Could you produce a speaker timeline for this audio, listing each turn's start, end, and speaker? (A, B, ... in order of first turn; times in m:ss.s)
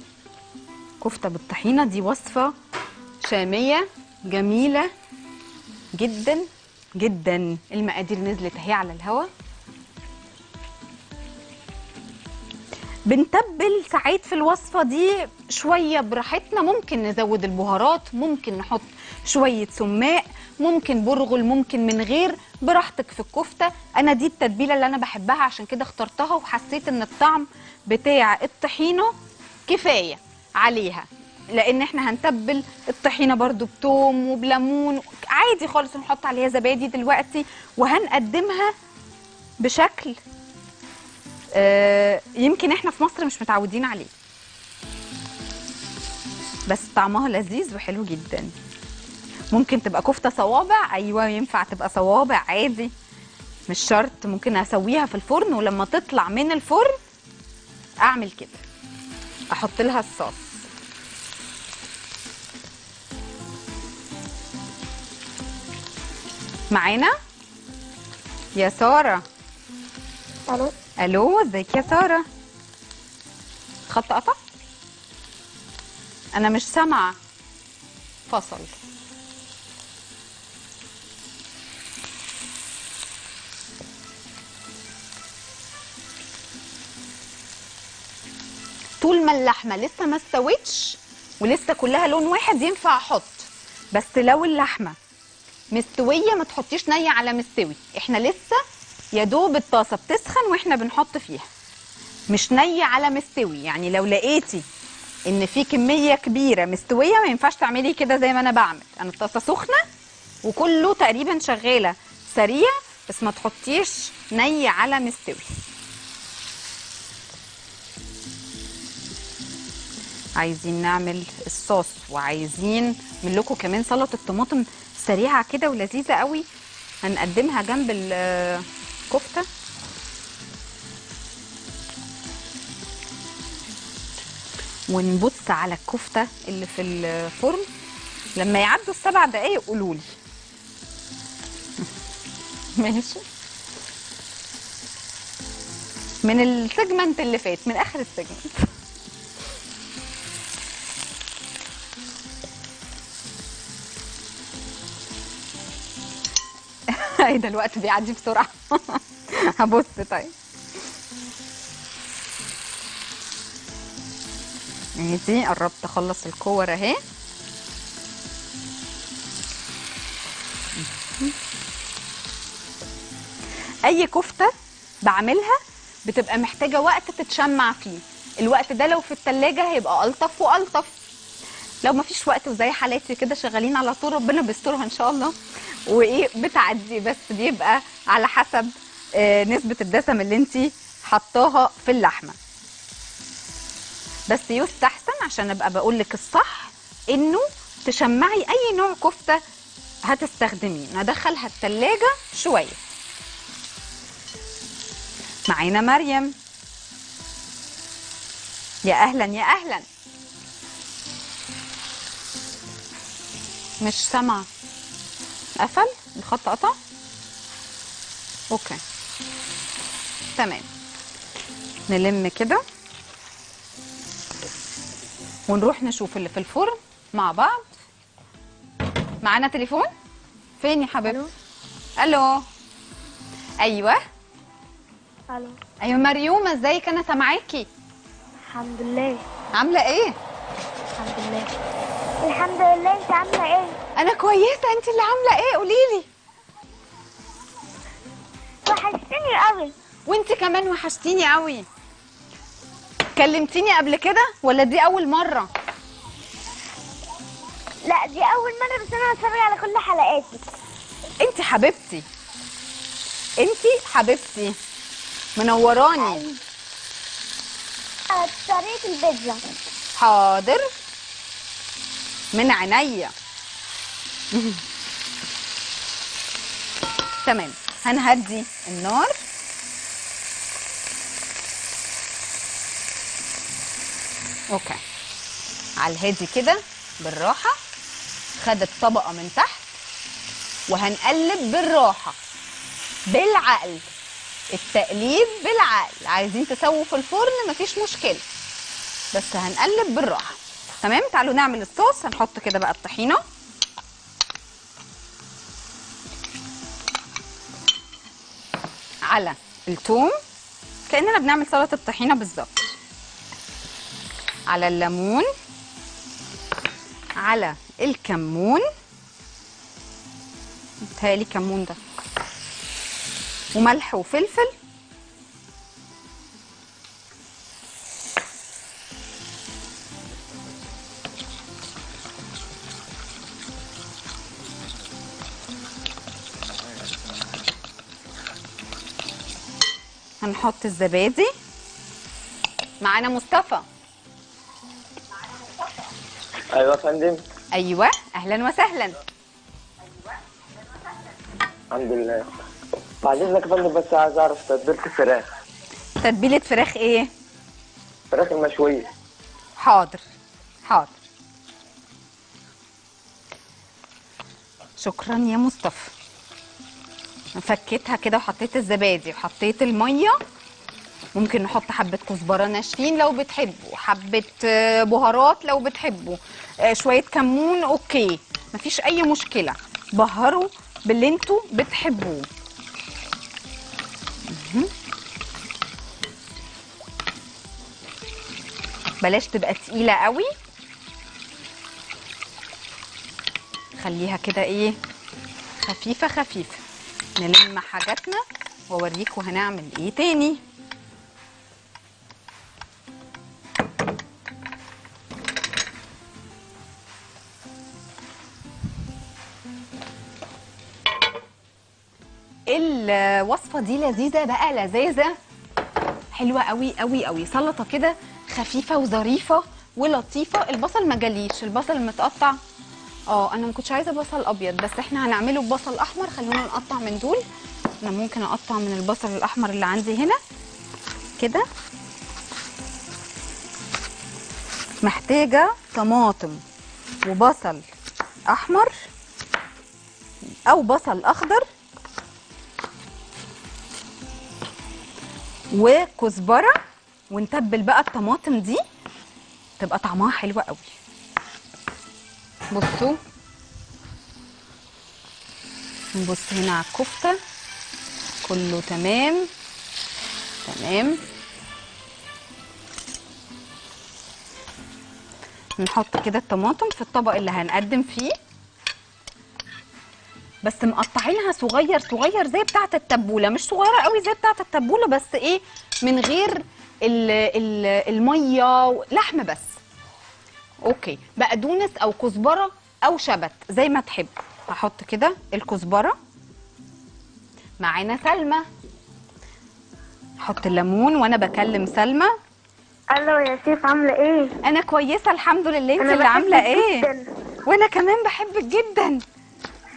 0:01.0-0:02.5 A
0:03.2-0:04.9 A
0:05.9-0:09.3 A
0:13.1-0:29.1 A
0:29.7-0:38.7 A
0:39.6-0:40.2 A
0:41.5-0:44.1 A
0:46.7-0:48.5 A
0:49.5-0:52.9 A
0:53.7-0:57.0 A
0:58.0-0:58.6 A
0:59.5-1:00.6 A
1:06.7-1:07.1 A
1:08.6-1:09.2 A
1:10.5-1:10.7 B
1:11.0-1:12.2 A
1:13.9-1:14.4 A
1:16.3-1:17.2 A
1:18.3-1:18.8 A
1:29.0-1:35.0 A
1:35.7-1:38.6 A
1:39.1-1:41.5 A
1:42.3-1:44.6 A
1:45.2-1:49.8 A
1:50.4-1:55.5 A
2:00.4-2:06.4 A
2:07.0-2:09.4 A
2:14.9-2:17.6 A
2:18.4-2:20.0 A
2:22.8-2:23.2 A
2:26.2-2:28.7 A
2:36.9-2:40.3 A
2:45.0-2:47.0 A
2:53.8-2:54.5 A
2:55.0-3:01.0 A
3:01.8-3:05.3 A
3:05.9-3:12.4 A
3:14.3-3:19.4 A
3:20.1-3:22.8 A
3:25.5-3:26.3 A
3:28.8-3:29.8 A
3:33.8-3:34.4 A
3:35.6-3:36.7 A
3:38.5-3:38.8 A
3:40.4-3:40.6 A
3:41.9-3:42.6 A
3:45.5-3:47.7 A
3:49.2-3:49.9 A
3:50.6-3:51.2 A
3:52.0-3:52.4 A
3:53.6-3:54.0 A
3:55.3-3:55.6 B
3:55.8-3:57.7 A
3:58.5-3:59.2 B
3:59.6-4:00.1 A
4:01.0-4:01.5 B
4:02.2-4:03.8 B
4:04.0-4:06.0 A
4:08.6-4:09.7 B
4:10.1-4:11.6 A
4:13.1-4:15.5 A
4:17.8-4:20.4 B
4:21.2-4:22.0 A
4:23.4-4:24.6 A
4:25.4-4:26.2 A
4:26.0-4:26.4 B
4:28.1-4:29.4 B
4:30.0-4:30.7 A
4:32.3-4:33.1 A
4:34.3-4:34.6 A
4:37.2-4:39.1 A
4:44.5-4:44.8 A
4:45.8-4:47.6 A
4:48.4-4:49.7 A
4:50.7-4:52.2 A
4:53.1-4:53.9 A
4:54.5-4:58.2 A
4:59.1-5:03.2 A
5:09.1-5:10.2 A
5:10.9-5:12.7 A
5:14.5-5:15.3 A
5:17.2-5:18.6 A
5:20.8-5:21.8 A
5:23.5-5:24.5 A
5:40.2-5:41.3 A
5:42.8-5:43.6 A
5:46.5-5:47.2 C
5:47.5-5:49.0 A
5:51.7-5:52.3 C
5:53.0-5:55.2 C
5:56.0-5:57.1 A
5:58.1-5:58.9 C
5:59.6-6:00.0 A
6:00.6-6:01.0 A
6:04.8-6:05.9 A
6:07.4-6:10.2 A
6:11.2-6:22.3 A
6:24.3-6:24.7 A
6:29.0-6:30.3 A
6:33.8-6:34.8 A
6:35.6-6:36.6 A
6:37.2-6:40.4 A
6:52.5-6:55.1 A
6:56.1-7:02.4 A
7:03.1-7:07.2 A
7:07.8-7:10.2 A
7:11.2-7:11.4 A
7:14.8-7:16.4 A
7:17.0-7:17.6 A
7:18.3-7:18.7 A
7:20.4-7:21.4 A
7:25.5-7:26.6 A
7:27.1-7:28.6 A
7:29.6-7:30.7 A
7:32.5-7:33.0 A
7:35.9-7:37.2 A
7:38.2-7:39.3 A
7:40.4-7:41.0 A
7:45.6-7:48.1 A
7:50.4-7:59.6 A
8:00.6-8:06.0 A
8:07.6-8:08.4 A
8:10.2-8:12.1 A
8:12.9-8:14.3 B
8:14.4-8:16.9 A
8:15.8-8:17.1 B
8:17.4-8:19.0 A